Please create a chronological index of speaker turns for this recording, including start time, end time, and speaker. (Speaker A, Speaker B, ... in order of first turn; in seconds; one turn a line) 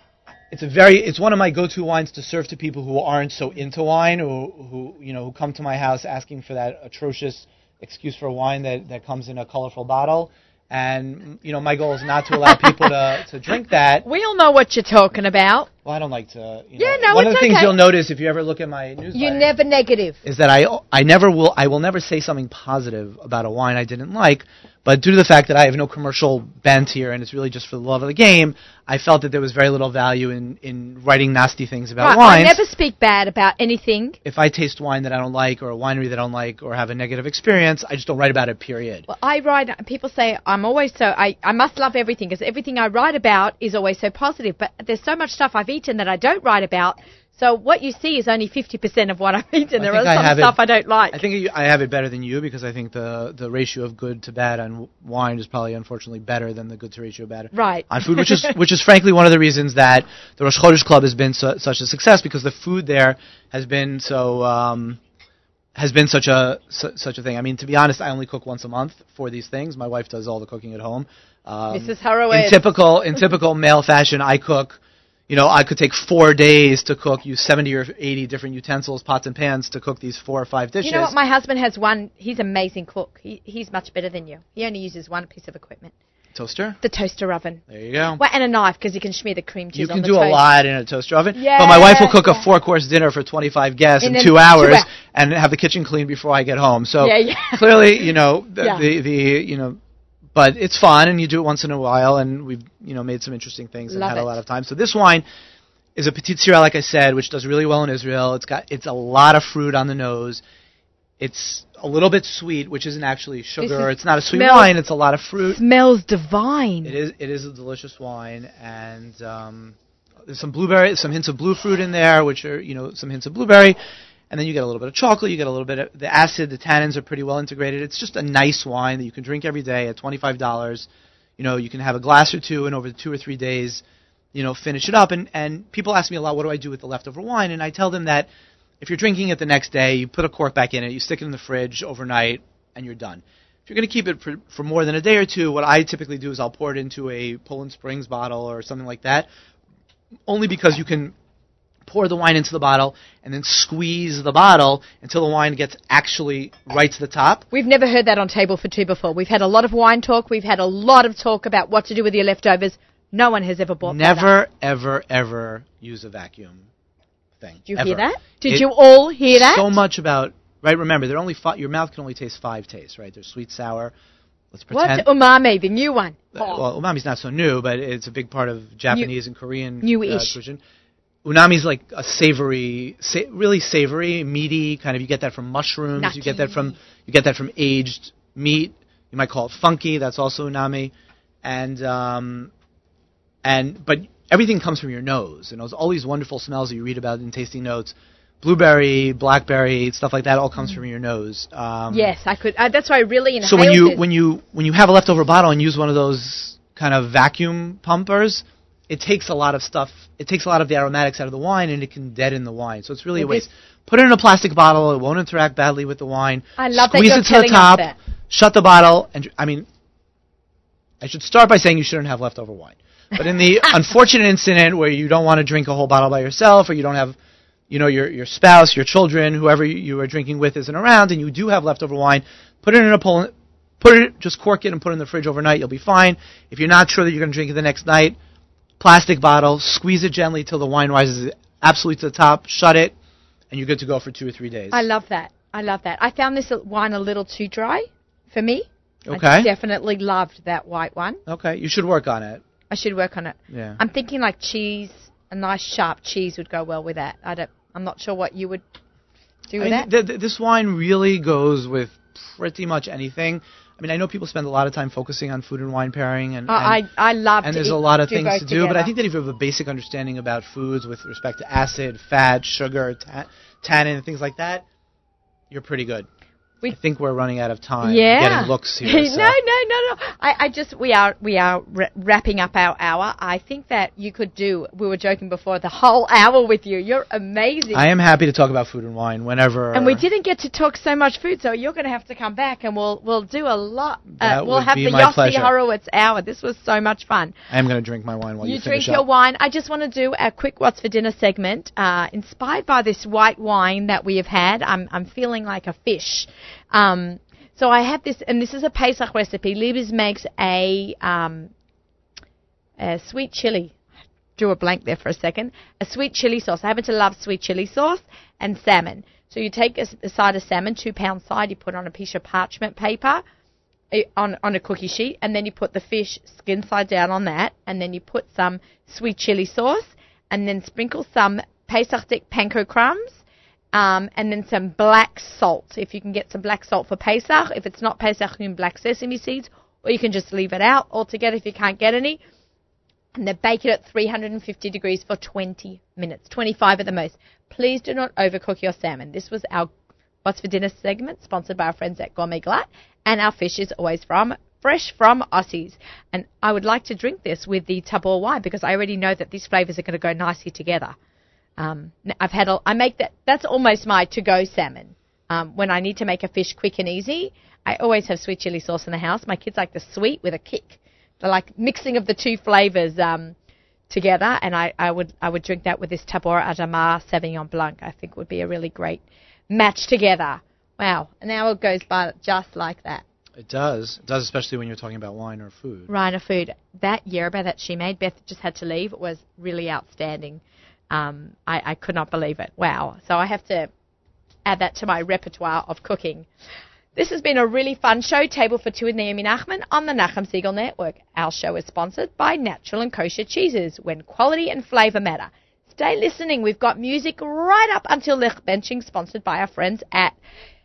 Speaker A: 0.5-14.1
Speaker B: 12.4-12.9
Speaker B: 14.0-15.7
Speaker A: 15.8-19.5
Speaker B: 16.8-17.7
Speaker B: 19.1-20.2
Speaker A: 20.2-32.6
Speaker B: 32.0-34.2
Speaker A: 34.2-39.0
Speaker B: 39.1-51.2
Speaker A: 49.8-50.6
Speaker A: 51.1-65.0
Speaker B: 57.5-58.5
Speaker A: 65.8-81.1
Speaker B: 71.7-72.7
Speaker B: 80.8-85.9
Speaker A: 86.3-86.8
Speaker B: 86.8-87.6
Speaker A: 87.7-88.2
Speaker B: 88.2-90.4
Speaker A: 89.7-99.8
Speaker B: 91.3-92.5
Speaker B: 94.0-94.9
Speaker B: 97.0-97.8
Speaker B: 98.6-98.8
Speaker A: 100.3-105.2
Speaker B: 103.9-104.4
Speaker A: 105.9-110.4
Speaker A: 111.2-115.6
Speaker B: 113.6-114.7
Speaker B: 115.4-117.0
Speaker A: 116.8-123.8
Speaker A: 124.3-130.9
Speaker A: 131.4-133.8
Speaker A: 134.3-138.3
Speaker A: 138.8-149.3
Speaker A: 150.3-151.1
Speaker A: 151.8-157.4
Speaker B: 157.5-164.3
Speaker A: 163.8-166.7
Speaker A: 167.4-168.7
Speaker B: 167.7-169.8
Speaker A: 169.3-173.9
Speaker A: 174.5-175.1
Speaker B: 174.7-176.6
Speaker A: 176.3-180.6
Speaker B: 179.8-180.3
Speaker A: 181.2-190.9
Speaker B: 186.0-186.7
Speaker A: 191.4-192.5
Speaker A: 193.4-202.1
Speaker B: 201.9-204.0
Speaker A: 203.4-219.7
Speaker B: 213.2-213.4
Speaker B: 216.6-217.9
Speaker A: 221.0-227.2
Speaker A: 227.7-238.2
Speaker A: 238.8-242.9
Speaker A: 243.5-244.8
Speaker B: 244.7-251.2
Speaker A: 249.1-249.5
Speaker A: 251.3-252.4
Speaker B: 252.7-258.6
Speaker A: 253.5-253.8
Speaker B: 259.5-259.9
Speaker A: 259.6-266.8
Speaker B: 266.5-268.9
Speaker A: 267.4-274.6
Speaker A: 275.5-276.1
Speaker A: 276.7-279.4
Speaker B: 277.8-287.8
Speaker A: 287.7-290.0
Speaker B: 289.7-297.3
Speaker A: 294.2-295.5
Speaker A: 297.5-299.0
Speaker B: 298.4-311.5
Speaker B: 312.8-313.8
Speaker B: 314.4-323.2
Speaker B: 323.9-342.2
Speaker B: 343.1-349.7
Speaker B: 350.2-360.9
Speaker B: 361.6-373.4
Speaker B: 373.9-383.0
Speaker A: 383.4-385.9
Speaker B: 385.9-393.7
Speaker B: 394.4-396.3
Speaker B: 396.9-410.2